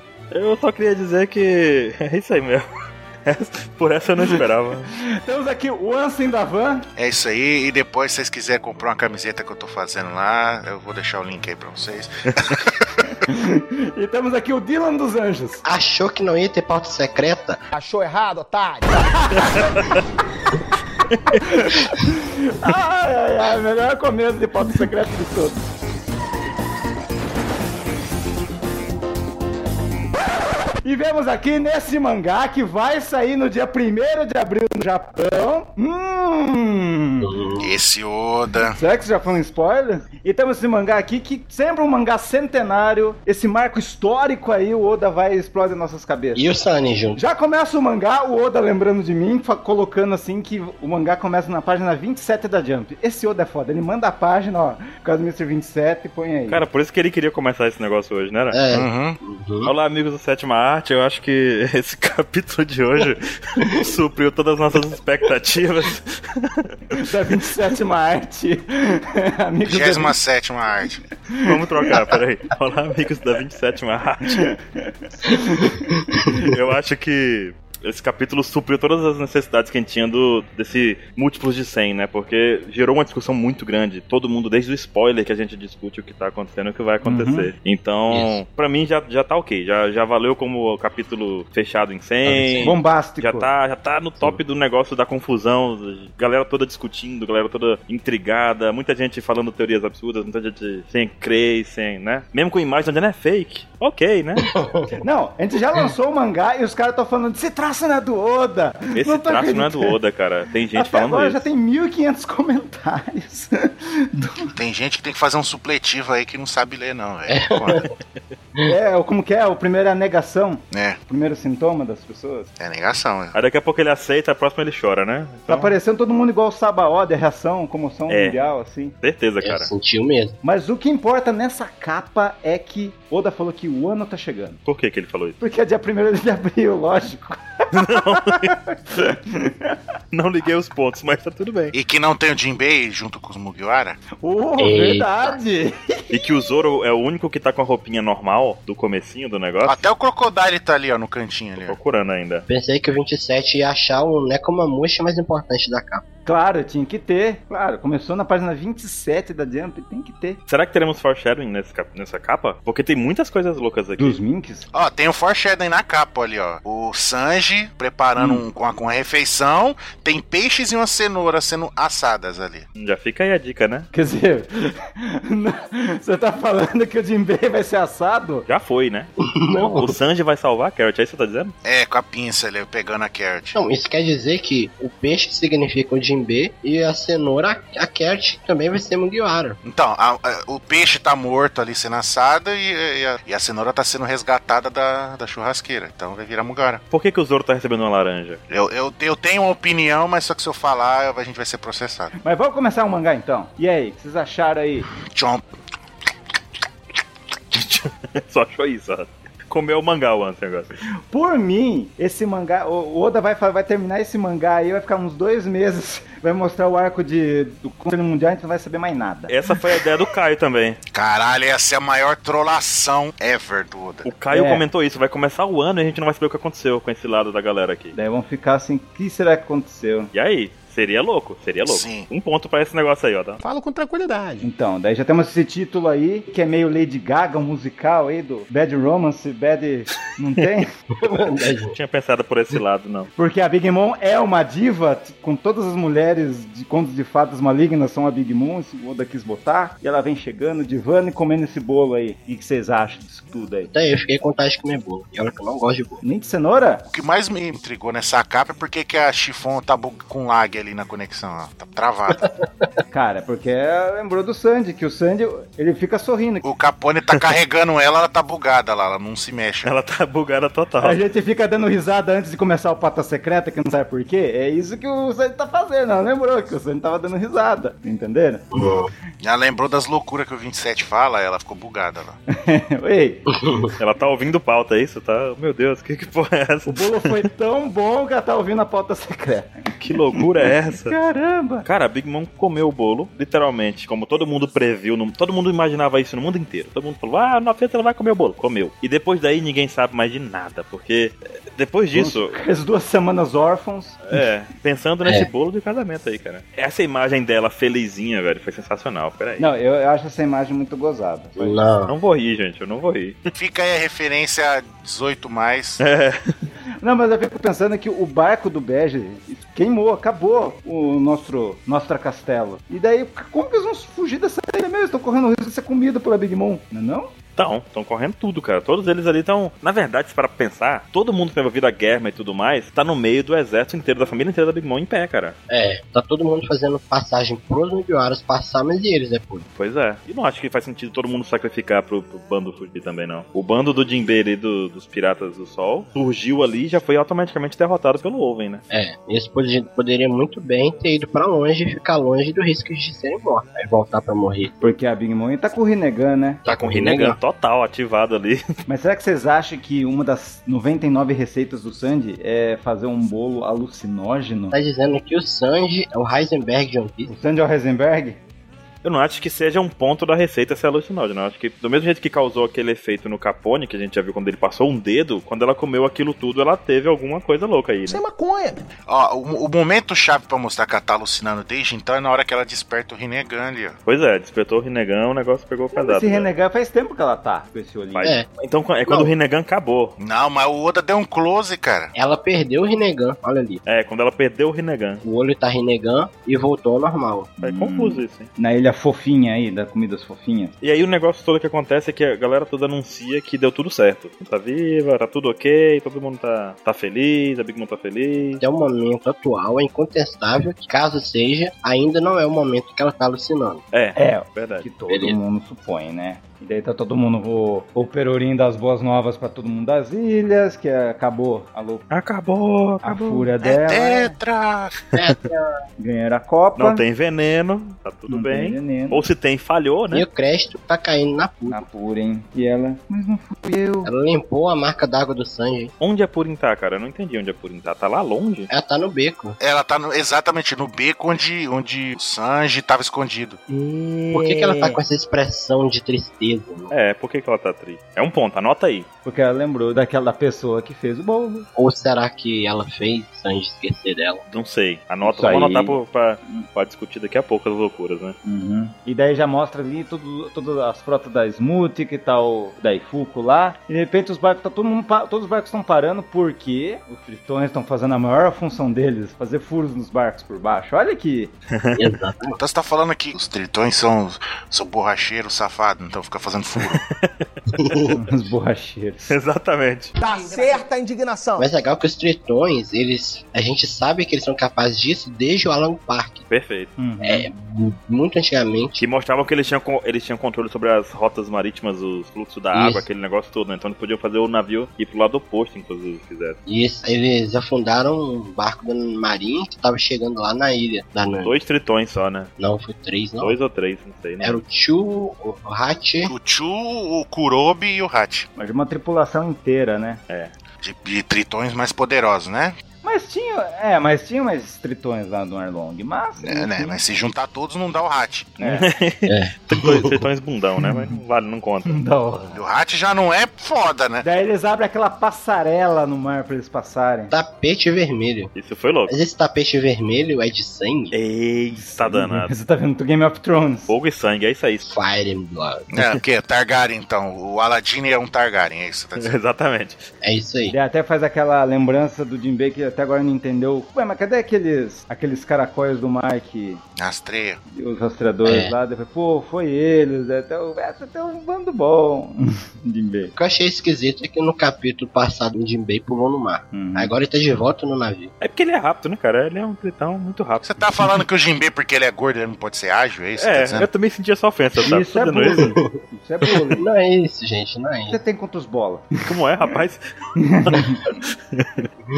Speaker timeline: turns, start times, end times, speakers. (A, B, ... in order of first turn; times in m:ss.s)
0:00.3-0:02.7 A
0:03.2-0:04.9 A
0:04.9-0:06.9 B
0:07.0-0:13.0 C
0:13.2-0:15.6 B
0:15.6-0:17.6 D
0:17.7-0:19.7 E
0:19.3-0:19.6 B
0:19.4-0:20.0 A
0:21.1-0:21.4 A
0:21.4-0:25.6 B
0:30.8-0:37.3 B
0:37.2-0:37.7 D
0:37.6-0:38.8 C
0:38.7-0:46.5 B
0:46.3-0:47.2 D
0:47.2-0:56.6 B
0:56.5-0:58.6 A
0:58.5-0:59.7 D
0:58.7-0:59.2 C
0:59.6-1:07.0 A
1:06.9-1:10.2 B
1:09.6-1:11.0 C
1:11.3-1:11.9 B
1:11.4-1:14.5 A
1:14.4-1:16.5 B
1:16.4-1:44.5 A
1:27.0-1:27.5 B
1:28.1-1:28.4 D
1:32.2-1:32.8 D
1:32.6-1:33.5 B
1:44.4-1:45.0 D
1:45.0-1:50.0 B
1:48.9-1:51.4 A
1:50.7-1:54.5 B
1:54.5-1:57.9 C
1:57.3-1:57.9 D
1:58.6-2:02.5 B
2:00.7-2:01.0 C
2:02.6-2:03.3 C
2:03.3-2:05.7 A
2:05.5-2:08.9 B
2:08.1-2:08.4 A
2:09.0-2:09.7 A
2:09.4-2:10.4 D
2:10.4-2:14.6 B
2:14.6-2:15.4 A
2:15.4-2:19.8 B
2:17.7-2:18.5 A
2:20.1-2:21.7 A
2:21.7-2:24.0 C
2:24.2-2:26.4 B
2:24.6-2:25.4 D
2:26.1-2:29.8 A
2:29.6-2:31.8 C
2:31.6-2:32.4 A
2:32.5-2:36.0 D
2:36.2-2:40.4 B
2:40.5-2:44.2 A
2:44.0-2:44.7 B
2:44.7-2:52.6 C
2:48.2-2:48.4 B
2:52.8-2:53.9 A
2:53.9-2:58.5 B
2:58.5-2:59.1 A
2:59.2-2:59.9 D
2:59.8-3:01.5 A
3:01.6-3:03.6 C
3:03.5-3:09.6 D
3:09.6-3:16.8 C
3:16.9-3:18.4 A
3:18.5-3:22.1 C
3:22.2-3:24.9 B
3:25.0-3:25.4 C
3:27.5-3:30.7 A
3:31.1-3:39.3 B
3:39.3-3:40.8 A
3:40.9-3:44.1 C
3:44.0-3:48.0 A
3:44.3-3:44.6 B
3:47.9-3:50.1 B
3:50.1-3:53.4 A
3:51.6-3:52.1 C
3:53.4-3:54.5 E
3:54.4-4:00.7 B
4:01.0-4:01.8 D
4:01.7-4:03.1 A
4:03.2-4:13.7 B
4:13.7-4:16.0 D
4:16.0-4:16.8 B
4:16.9-4:22.3 C
4:22.9-4:26.4 B
4:26.4-4:29.7 C
4:29.6-4:31.0 A
4:30.8-4:38.5 B
4:38.5-4:38.9 D
4:39.2-4:42.2 C
4:42.3-4:43.2 B
4:43.3-4:43.7 D
4:43.8-4:47.2 A
4:46.6-4:49.5 B
4:49.8-4:51.0 A
4:50.7-4:51.7 B
4:51.6-5:02.4 A
5:01.9-5:04.2 B
5:04.1-5:09.5 A
5:09.4-5:11.6 B
5:11.4-5:11.9 D
5:11.9-5:13.2 A
5:13.3-5:15.8 C
5:15.8-5:16.3 A
5:16.8-5:27.1 B
5:27.4-5:35.4 A
5:35.5-5:39.5 D
5:39.6-5:48.6 A
5:48.7-5:54.5 D
5:54.6-5:56.4 B
5:56.4-5:57.2 D
5:56.5-5:58.4 A
5:58.7-6:04.5 B
6:04.5-6:07.1 D
6:07.1-6:08.2 B
6:08.8-6:18.0 A
6:17.9-6:18.6 E
6:18.9-6:23.8 C
6:23.9-6:26.3 A
6:25.7-6:28.1 B
6:27.9-6:30.0 A
6:28.9-6:29.1 D
6:30.0-6:31.9 C
6:31.9-6:33.6 D
6:33.6-6:35.0 A
6:35.0-6:37.4 D
6:37.4-6:38.3 A
6:37.4-6:40.5 B
6:40.6-6:48.4 A
6:48.4-6:53.6 D
6:53.7-6:54.7 A
6:54.0-7:01.8 B
6:54.9-6:55.2 D
7:01.9-7:03.3 A
7:02.8-7:04.2 B
7:03.4-7:04.8 C
7:04.9-7:05.5 D
7:05.8-7:06.8 B
7:06.6-7:10.0 A
7:08.1-7:09.0 B
7:09.9-7:11.6 D
7:11.5-7:13.9 B
7:13.8-7:15.7 D
7:15.8-7:18.5 A
7:18.5-7:19.4 D
7:19.4-7:23.4 C
7:23.5-7:24.8 B
7:24.1-7:26.7 D
7:26.7-7:28.9 A
7:29.0-7:31.5 B
7:31.6-7:34.2 D
7:34.3-7:38.2 A
7:35.0-7:36.5 B
7:38.2-7:51.3 B
7:51.5-7:51.8 A
7:51.7-7:52.4 D
7:52.4-7:56.8 C
7:56.6-7:58.0 A
7:57.5-7:58.0 D
7:57.9-7:59.1 B
7:59.1-7:59.9 A
8:00.0-8:01.5 E
8:01.4-8:06.2 D
8:06.3-8:06.7 A
8:06.8-8:07.3 B
8:07.0-8:08.8 D
8:08.8-8:16.4 A
8:12.5-8:12.8 D
8:16.5-8:21.3 D
8:21.2-8:22.3 A
8:22.4-8:23.4 D
8:23.2-8:24.4 A
8:24.2-8:26.1 D
8:26.0-8:28.3 C
8:28.4-8:30.0 B
8:30.6-8:32.5 C
8:32.8-8:36.8 B
8:36.2-8:38.3 C
8:38.4-8:38.7 B
8:38.4-8:41.8 A
8:39.1-8:40.0 D
8:40.6-8:41.0 B
8:41.6-8:42.4 B
8:42.3-8:44.0 C
8:44.0-8:47.1 B
8:47.1-8:48.3 D
8:48.3-8:48.9 A
8:48.9-8:50.9 D
8:50.9-8:52.3 A
8:51.8-8:53.7 B
8:53.7-8:54.7 A
8:54.6-8:55.7 D
8:55.7-8:59.1 C
8:59.0-8:59.8 A
9:00.0-9:00.5 D
9:00.5-9:06.6 B
9:06.8-9:07.4 C
9:07.5-9:13.1 B
9:08.2-9:08.5 D
9:13.1-9:18.1 D
9:16.5-9:16.9 B
9:18.2-9:20.6 A
9:20.4-9:23.7 C
9:23.2-9:25.5 A
9:24.6-9:26.6 B
9:25.3-9:25.8 D
9:26.5-9:28.0 D
9:27.9-9:28.9 B
9:29.0-9:29.8 A
9:30.2-9:30.8 B
9:30.4-9:31.7 A